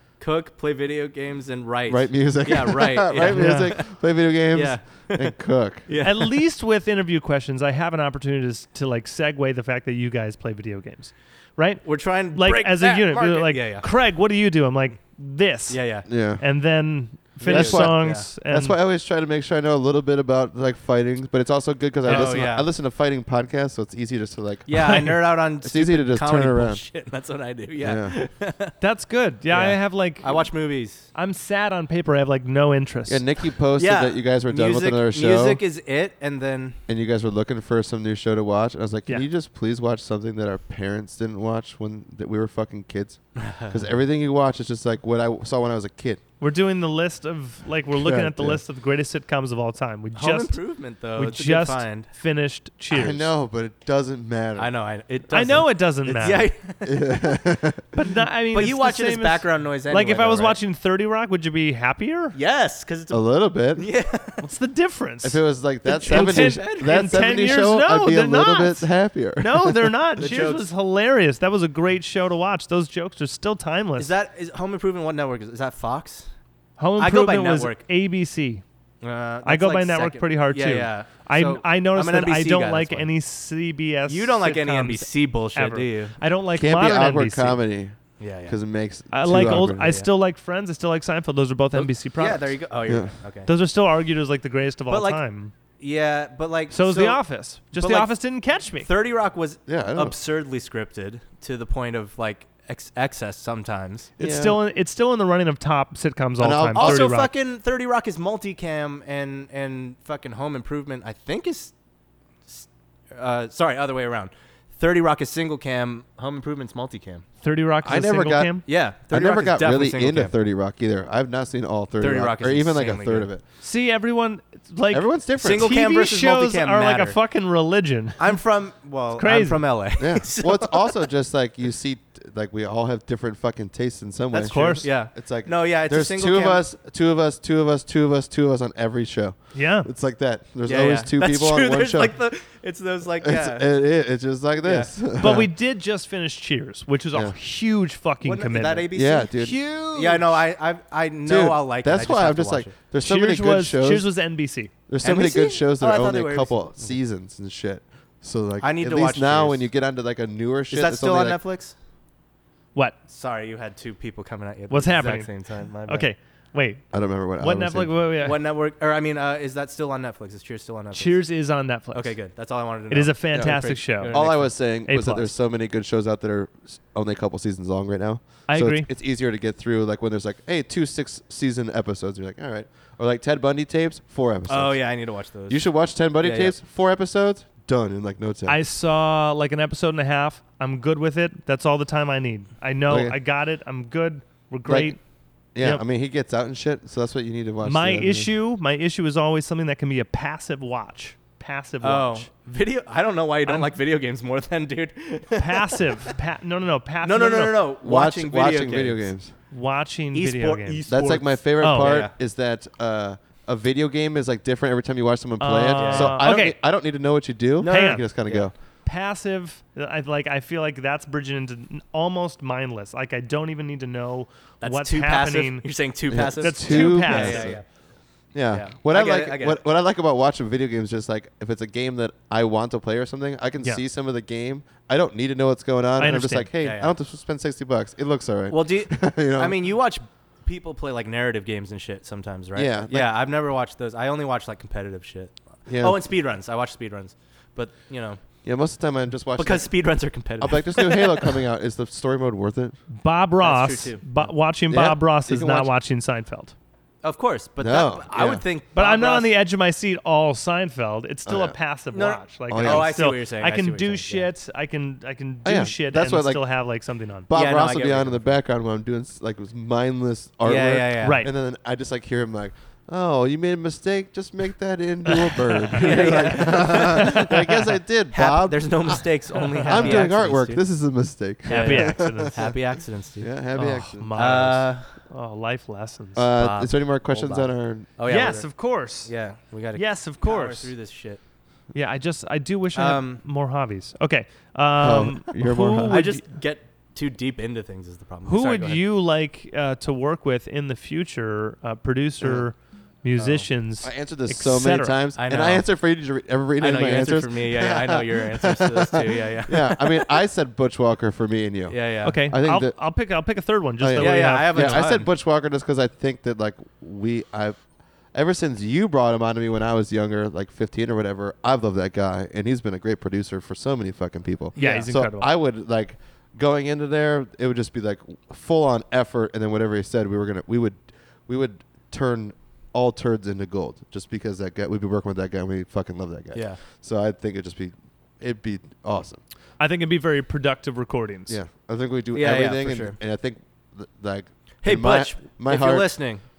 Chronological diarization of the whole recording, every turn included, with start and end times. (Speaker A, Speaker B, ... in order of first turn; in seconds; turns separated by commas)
Speaker A: 0.2-3.9, Speaker B: 1.9-5.9, Speaker C: 3.3-3.7, Speaker A: 4.5-5.3, Speaker A: 5.9-6.3, Speaker C: 6.0-18.8, Speaker A: 11.8-13.9, Speaker A: 15.7-16.1, Speaker B: 16.1-16.4, Speaker A: 17.4-18.3, Speaker B: 17.4-24.7, Speaker A: 22.1-22.7, Speaker C: 22.1-22.5, Speaker A: 24.7-28.7, Speaker C: 24.7-25.2, Speaker B: 25.6-26.9, Speaker B: 27.8-28.1, Speaker C: 28.8-30.5, Speaker A: 29.5-31.1, Speaker C: 31.1-33.2, Speaker B: 33.1-35.6, Speaker A: 33.8-36.8, Speaker B: 36.9-46.2, Speaker A: 43.4-44.0, Speaker C: 46.4-50.6, Speaker B: 47.9-48.6, Speaker A: 50.1-52.1, Speaker C: 51.1-53.3, Speaker B: 52.9-54.7, Speaker A: 54.6-57.2, Speaker C: 55.3-56.5, Speaker B: 56.9-57.9, Speaker C: 57.9-62.4, Speaker A: 58.5-60.6, Speaker A: 62.3-64.5, Speaker B: 63.1-63.9, Speaker C: 64.4-65.5, Speaker B: 65.2-70.0, Speaker A: 65.8-67.2, Speaker C: 66.0-74.1, Speaker A: 70.2-70.7, Speaker A: 74.0-76.3, Speaker C: 76.8-78.6, Speaker A: 77.0-77.8, Speaker A: 79.0-83.1, Speaker C: 79.5-87.6, Speaker A: 84.1-86.2, Speaker B: 86.5-90.0, Speaker A: 88.2-88.6, Speaker C: 89.1-92.6, Speaker A: 91.7-93.5, Speaker C: 93.5-95.5, Speaker A: 94.9-95.2, Speaker A: 95.8-98.2, Speaker C: 96.7-98.9, Speaker A: 98.8-104.1, Speaker B: 99.7-100.2, Speaker B: 104.2-104.6, Speaker C: 104.2-107.3, Speaker B: 106.4-107.1, Speaker A: 106.8-111.7, Speaker A: 112.5-117.2, Speaker C: 117.4-118.7, Speaker B: 117.8-123.4, Speaker A: 118.7-120.3, Speaker A: 122.0-123.3, Speaker C: 123.6-128.4, Speaker B: 124.9-125.8, Speaker A: 125.4-127.2, Speaker A: 128.2-131.1, Speaker C: 129.2-129.7, Speaker B: 130.0-142.2, Speaker A: 134.3-136.6, Speaker C: 134.5-134.9, Speaker C: 139.5-139.9, Speaker A: 140.7-143.7, Speaker B: 143.2-145.5, Speaker A: 144.6-145.4, Speaker C: 145.2-150.3, Speaker A: 148.2-149.4, Speaker B: 148.9-149.6, Speaker A: 149.9-152.7, Speaker B: 151.2-154.1, Speaker C: 153.0-154.7, Speaker B: 154.9-161.4, Speaker A: 155.0-157.0, Speaker A: 158.6-159.6, Speaker A: 160.7-161.8, Speaker A: 163.1-166.1, Speaker C: 164.7-166.9, Speaker B: 166.9-167.9, Speaker C: 167.4-168.4, Speaker A: 168.2-171.3, Speaker C: 170.9-172.2, Speaker A: 171.9-174.6, Speaker C: 172.9-175.3, Speaker B: 174.1-184.9, Speaker C: 178.5-178.9, Speaker A: 184.5-186.6, Speaker B: 185.5-188.6, Speaker C: 188.5-195.0, Speaker B: 192.9-193.2, Speaker B: 194.7-194.9, Speaker B: 195.6-198.3, Speaker C: 197.6-202.3, Speaker A: 201.8-206.1, Speaker C: 203.5-203.7, Speaker C: 205.4-207.6, Speaker A: 207.0-209.1, Speaker B: 207.8-209.3, Speaker C: 209.5-210.8, Speaker A: 210.1-212.1, Speaker B: 210.9-218.5, Speaker C: 211.6-212.0, Speaker C: 215.4-216.6, Speaker A: 215.8-216.2, Speaker A: 217.6-218.5, Speaker C: 217.7-218.1, Speaker C: 218.8-225.7, Speaker A: 224.6-227.7, Speaker B: 226.1-227.6, Speaker C: 226.4-227.6, Speaker B: 228.3-239.6, Speaker A: 228.5-229.6, Speaker C: 236.0-236.5, Speaker A: 236.6-236.9, Speaker A: 238.5-248.2, Speaker B: 242.6-243.1, Speaker B: 245.7-246.0, Speaker B: 248.4-249.7, Speaker A: 249.4-251.4, Speaker B: 250.4-252.8, Speaker C: 252.9-256.5, Speaker A: 253.4-254.3, Speaker B: 254.7-255.7, Speaker A: 257.0-259.3, Speaker B: 257.6-258.4, Speaker C: 258.8-267.3, Speaker B: 261.3-261.6, Speaker A: 261.9-264.3, Speaker B: 262.5-262.9, Speaker B: 265.4-266.4, Speaker B: 267.3-279.1, Speaker A: 267.3-268.3, Speaker A: 270.4-271.3, Speaker C: 271.0-271.3, Speaker C: 275.4-276.4, Speaker A: 275.7-277.4, Speaker C: 277.0-277.3, Speaker A: 278.1-280.6, Speaker C: 279.4-280.1, Speaker B: 279.6-282.5, Speaker A: 281.5-283.3, Speaker C: 281.5-282.6, Speaker B: 283.2-284.1, Speaker C: 283.5-286.2, Speaker A: 284.1-285.0, Speaker B: 286.1-287.9, Speaker A: 286.3-291.2, Speaker C: 288.1-289.1, Speaker C: 289.7-290.7, Speaker C: 291.7-296.2, Speaker A: 292.7-293.2, Speaker B: 294.8-296.0, Speaker A: 295.9-298.8, Speaker C: 298.2-305.0, Speaker A: 303.2-303.5, Speaker B: 303.8-312.8, Speaker A: 305.2-305.7, Speaker A: 306.6-310.1, Speaker A: 311.7-312.2, Speaker C: 312.1-314.9, Speaker B: 313.8-317.6, Speaker A: 314.0-315.1, Speaker B: 318.1-339.2, Speaker A: 324.6-324.9, Speaker C: 324.6-325.3, Speaker A: 336.3-336.6, Speaker C: 339.6-341.4, Speaker B: 341.3-345.9, Speaker A: 342.1-343.0, Speaker A: 344.6-346.2